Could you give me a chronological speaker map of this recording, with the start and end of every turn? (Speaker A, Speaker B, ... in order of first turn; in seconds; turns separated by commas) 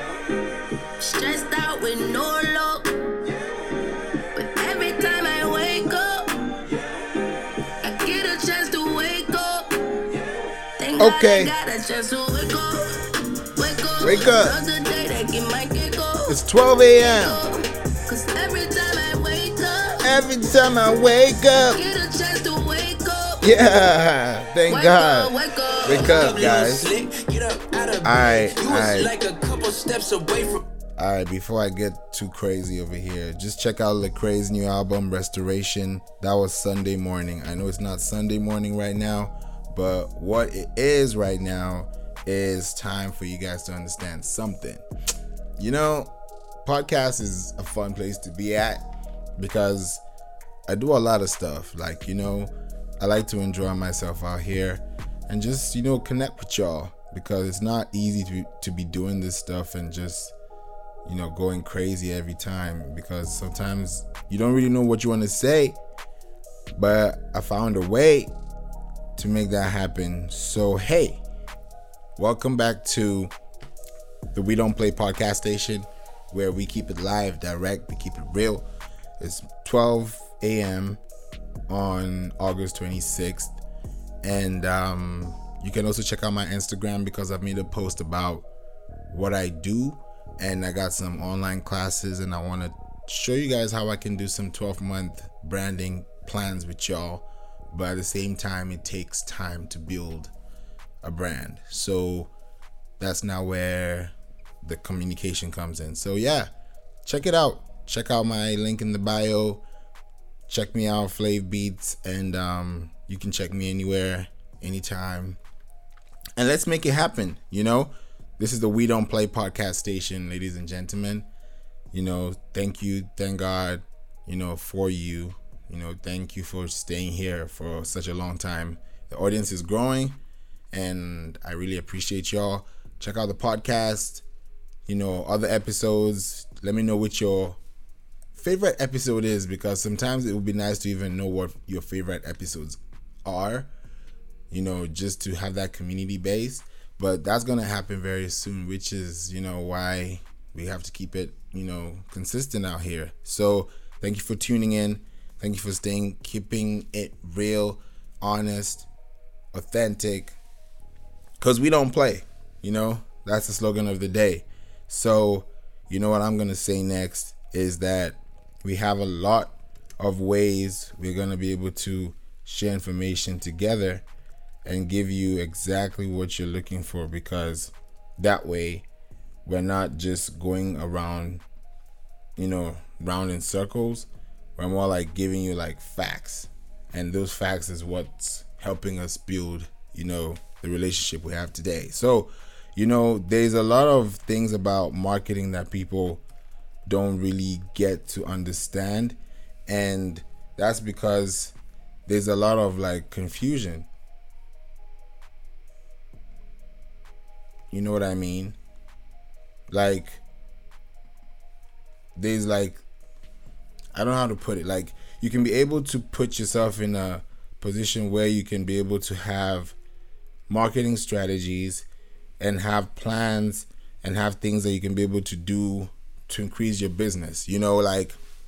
Speaker A: 0.4-3.3, Speaker A: 4.3-6.3, Speaker A: 7.8-10.3, Speaker A: 10.8-12.9, Speaker B: 11.0-11.5, Speaker A: 13.6-20.1, Speaker B: 14.0-14.6, Speaker B: 16.3-17.4, Speaker B: 20.0-21.8, Speaker A: 21.7-23.5, Speaker B: 23.4-25.3, Speaker A: 24.7-27.8, Speaker B: 25.8-26.9, Speaker C: 26.1-30.6, Speaker B: 28.0-29.1, Speaker A: 28.5-29.0, Speaker B: 31.0-44.9, Speaker B: 45.6-46.1, Speaker B: 46.6-48.9, Speaker B: 49.4-50.0, Speaker B: 50.7-60.3, Speaker B: 61.0-65.8, Speaker B: 66.8-68.3, Speaker B: 69.2-71.2, Speaker B: 72.2-73.3, Speaker B: 74.3-78.7, Speaker B: 79.2-81.0, Speaker B: 81.7-83.6, Speaker B: 84.2-88.5, Speaker B: 89.1-100.3, Speaker B: 101.0-102.3, Speaker B: 103.0-106.5, Speaker B: 107.0-109.6, Speaker B: 110.5-115.4, Speaker B: 116.4-121.3, Speaker B: 121.9-130.2, Speaker B: 130.7-134.2, Speaker B: 134.9-137.6, Speaker B: 138.3-143.7, Speaker B: 144.5-158.9, Speaker B: 159.5-160.4, Speaker B: 161.4-174.1, Speaker B: 174.7-178.9, Speaker B: 179.4-181.4, Speaker B: 182.4-196.2, Speaker B: 196.9-201.6, Speaker B: 202.1-203.9, Speaker B: 207.7-208.6, Speaker B: 209.7-210.2, Speaker B: 212.2-212.8, Speaker B: 213.9-219.8, Speaker B: 220.5-221.9, Speaker B: 222.4-228.2